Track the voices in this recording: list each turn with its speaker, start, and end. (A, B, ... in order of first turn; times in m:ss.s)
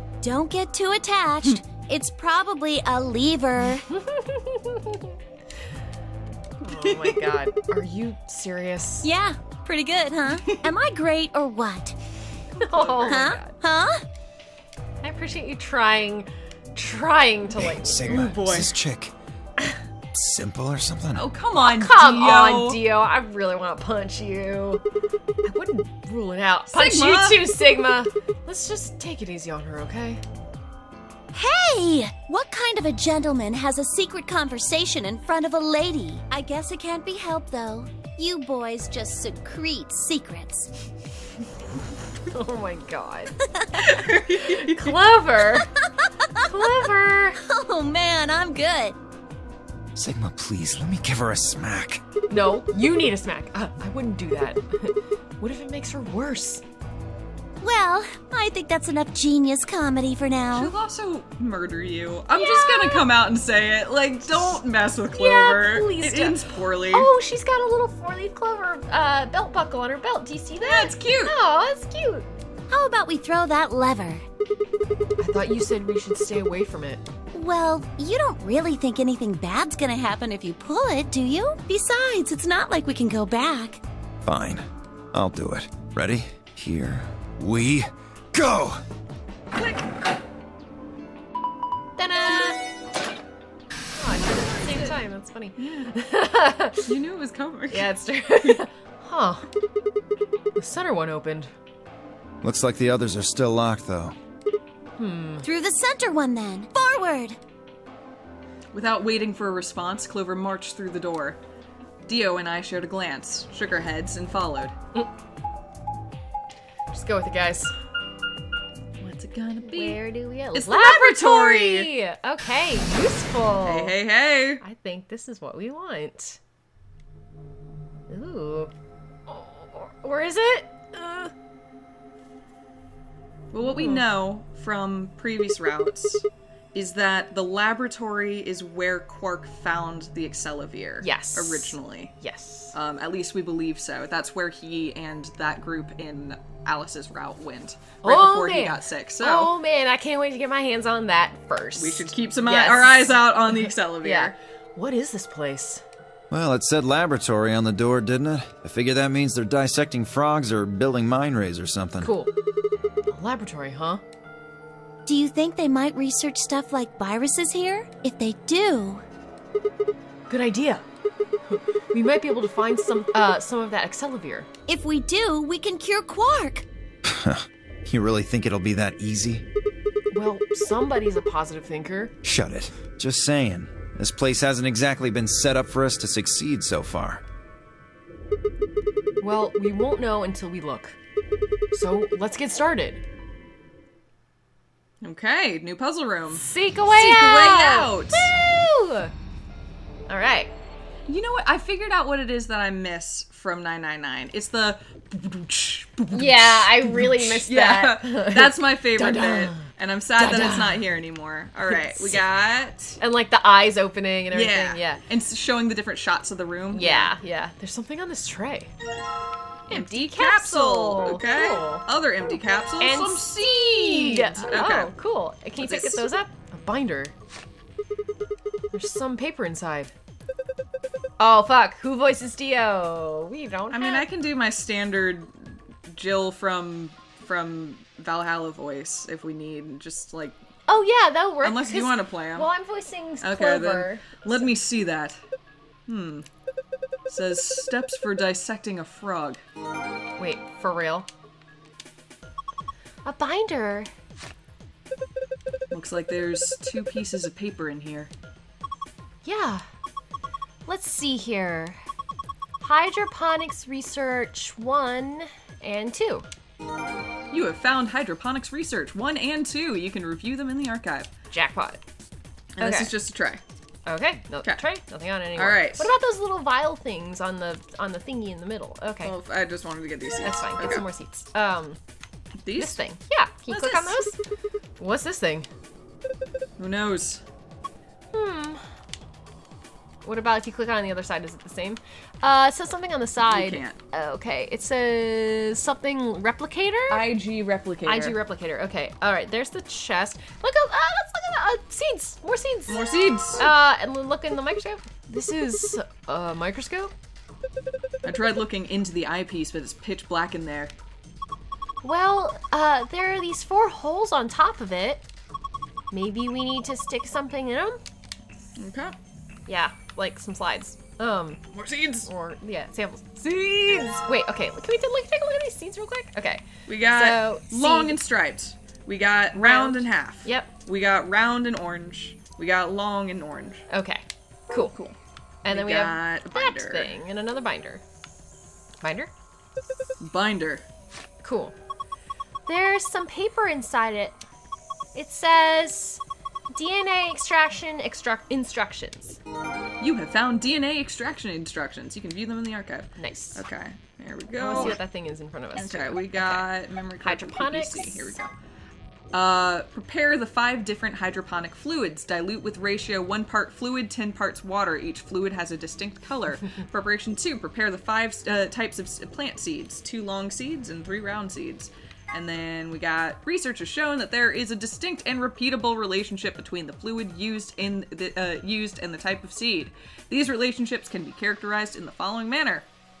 0:00.2-0:03.8 A
0:03.8-0:05.1 B
0:06.6-0:09.1 B
0:06.7-0:07.2 C
0:09.0-0:12.0 A
0:12.6-0:13.6 B
0:12.6-0:13.3 C
0:13.1-0:14.0 A
0:15.0-0:18.4 B
0:17.5-0:19.1 D
0:18.1-0:18.7 C
0:20.1-0:21.3 D
0:21.2-0:22.8 C
0:21.6-0:24.8 B
0:25.4-0:30.2 B
0:26.7-0:27.4 C
0:31.3-0:40.7 A
0:42.3-0:43.3 B
0:43.5-0:43.9 A
0:43.8-0:45.0 C
0:44.3-0:45.7 B
0:45.8-0:46.4 A
0:46.5-0:47.4 B
0:47.4-0:49.0 A
0:49.9-0:52.0 D
0:52.3-0:56.6 B
0:57.6-1:00.7 A
1:00.5-1:07.1 C
1:02.3-1:03.0 B
1:05.1-1:06.4 B
1:06.9-1:12.3 B
1:10.6-1:11.3 C
1:12.7-1:14.2 A
1:15.2-1:17.0 B
1:17.3-1:23.8 A
1:24.2-1:28.8 D
1:29.5-1:30.0 C
1:32.0-1:32.6 B
1:34.0-1:36.9 B
1:34.1-1:35.0 C
1:35.6-1:35.9 C
1:36.8-1:38.6 C
1:37.7-1:39.5 B
1:40.6-1:41.5 B
1:42.4-1:44.1 D
1:45.0-1:45.5 B
1:45.4-1:47.4 A
1:48.7-1:51.4 C
1:52.1-1:54.7 C
1:56.9-1:57.7 B
1:59.0-2:00.0 C
1:59.6-2:03.9 B
2:00.5-2:01.9 C
2:03.6-2:04.6 C
2:04.6-2:06.4 B
2:08.1-2:08.7 B
2:09.3-2:11.3 B
2:13.5-2:22.2 C
2:13.6-2:14.0 B
2:21.0-2:22.7 B
2:22.7-2:29.5 C
2:28.0-2:35.8 B
2:31.8-2:34.3 C
2:36.3-2:42.1 D
2:42.0-2:42.3 B
2:43.1-2:44.0 B
2:45.0-2:49.0 A
2:50.3-2:50.8 B
2:51.5-2:54.5 B
2:54.7-2:56.6 A
2:57.0-2:59.4 D
3:00.1-3:02.1 B
3:02.2-3:07.2 D
3:09.2-3:11.0 B
3:11.7-3:13.0 B
3:15.0-3:18.3 C
3:16.3-3:19.1 B
3:20.1-3:20.5 B
3:21.1-3:33.0 C
3:26.1-3:30.8 B
3:31.7-3:32.2 B
3:33.0-3:35.0 B
3:34.3-3:37.1 C
3:36.7-3:38.7 B
3:39.7-3:41.8 B
3:39.7-3:44.9 C
3:42.8-3:47.1 B
3:45.6-3:46.0 C
3:48.7-3:49.9 B
3:51.2-3:54.0 B
3:53.7-4:00.4 C
4:00.7-4:04.5 B
4:01.4-4:02.5 C
4:03.2-4:05.2 C
4:05.9-4:06.2 C
4:07.1-4:09.4 C
4:10.2-4:11.1 B
4:13.0-4:13.9 B
4:15.7-4:18.1 C
4:19.2-4:19.6 B
4:20.6-4:21.8 B
4:22.6-4:26.2 B
4:27.3-4:31.1 C
4:31.3-4:31.8 B
4:32.6-4:33.4 C
4:32.6-4:32.9 B
4:33.9-4:39.1 B
4:35.4-4:35.9 C
4:39.0-4:40.8 C
4:40.2-4:41.8 B
4:42.4-4:42.8 C
4:42.6-4:44.2 B
4:43.5-4:44.0 C
4:44.8-4:45.5 B
4:46.6-4:47.2 C
4:48.1-4:48.6 B
4:50.0-4:57.0 B
4:53.3-4:53.8 C
4:56.9-4:58.2 C
4:57.8-5:02.8 B
5:02.7-5:03.4 C
5:03.4-5:06.9 B
5:08.0-5:10.7 C
5:11.8-5:15.0 B
5:15.9-5:17.8 B
5:18.6-5:18.9 C
5:19.5-5:21.4 B
5:21.5-5:22.1 C
5:22.0-5:28.0 B
5:26.7-5:33.6 C
5:29.4-5:30.5 B
5:33.7-5:34.8 B
5:34.7-5:36.9 C
5:35.4-5:37.8 B
5:38.8-5:39.1 B
5:40.0-5:40.6 C
5:41.2-5:41.6 B
5:42.4-5:44.2 B
5:44.9-5:49.2 B
5:49.8-5:54.8 C
5:53.0-5:53.4 B
5:54.3-5:56.5 B
5:55.5-5:58.3 C
5:57.0-5:58.1 B
5:59.1-6:22.6 C